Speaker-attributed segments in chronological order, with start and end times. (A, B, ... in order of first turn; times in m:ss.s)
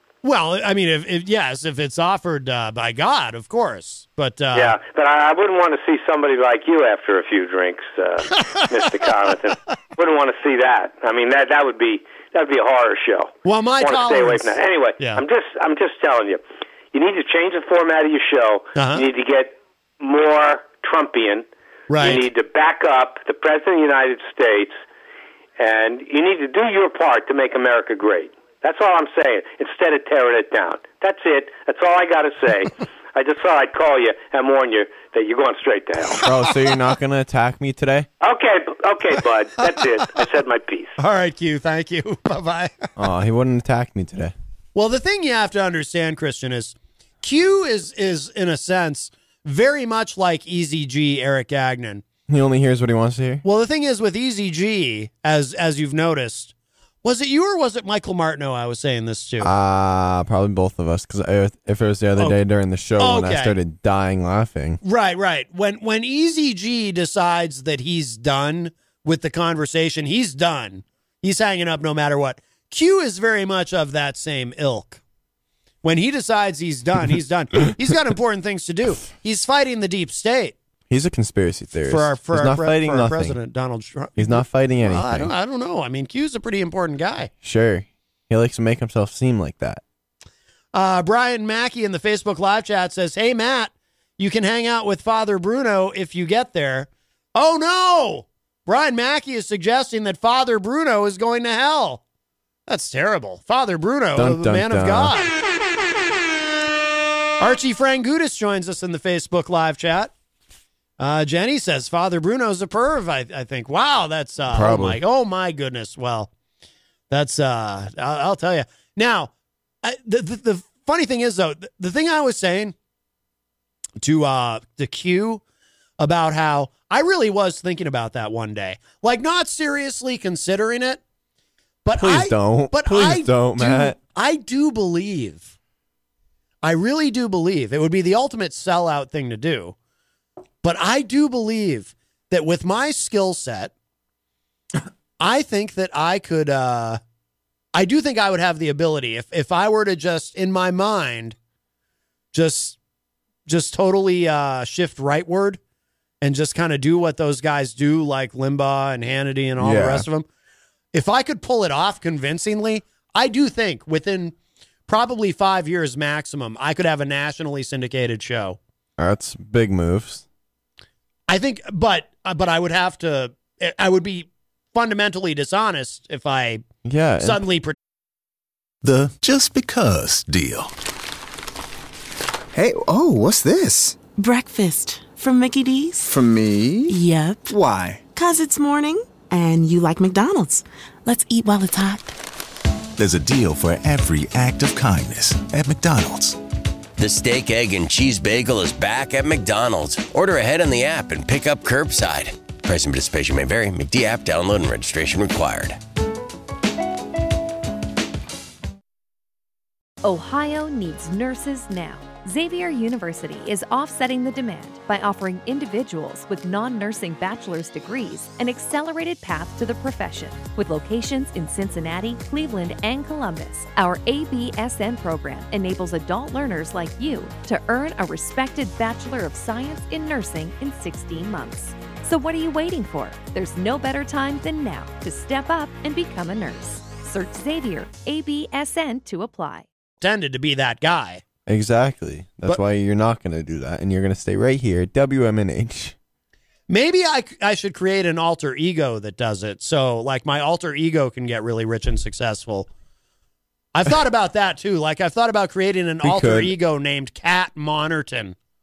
0:00.2-0:04.8 A
0:04.5-0:16.4 B
0:13.4-0:15.2 A
0:16.9-0:21.4 B
0:18.8-0:19.0 A
0:21.9-0:22.2 A
0:22.0-0:24.8 B
0:25.6-0:36.2 B
0:36.2-0:38.1 C
0:38.2-0:40.9 B
0:41.0-0:42.9 A
0:43.0-0:44.3 C
0:44.7-0:52.0 A
0:52.3-0:53.4 C
0:53.4-0:56.5 A
0:57.0-0:59.5 A
0:59.4-1:04.8 C
1:03.0-1:03.6 A
1:04.8-1:15.0 A
1:15.8-1:20.6 A
1:20.9-1:23.4 C
1:21.9-1:27.3 A
1:24.2-1:25.3 C
1:27.4-1:29.8 C
1:30.7-1:42.0 A
1:42.7-1:45.3 A
1:44.1-1:45.1 C
1:47.4-1:50.1 A
1:51.0-1:56.3 A
1:54.5-1:55.0 C
1:57.1-1:59.3 A
1:59.8-2:02.7 A
2:04.0-2:05.4 A
2:06.0-2:11.0 A
2:11.8-2:15.5 A
2:12.0-2:14.0 C
2:16.6-2:19.7 A
2:20.6-2:23.7 A
2:25.2-2:27.0 A
2:27.7-2:31.4 A
2:32.3-2:32.8 A
2:33.5-2:35.6 A
2:36.2-2:40.2 A
2:39.6-2:40.0 C
2:40.9-2:44.3 A
2:44.9-2:48.6 A
2:49.0-2:50.2 C
2:51.3-2:56.6 A
2:56.8-2:57.4 C
2:57.2-2:57.8 A
2:58.8-3:00.7 D
3:02.6-3:03.9 D
3:04.1-3:06.2 E
3:06.0-3:06.9 D
3:06.8-3:07.6 E
3:08.1-3:12.1 E
3:13.0-3:16.4 D
3:17.0-3:25.8 F
3:30.0-3:59.7 G
4:00.0-4:01.2 A
4:01.4-4:05.9 C
4:06.7-4:12.7 A
4:13.7-4:18.4 A
4:16.0-4:16.5 C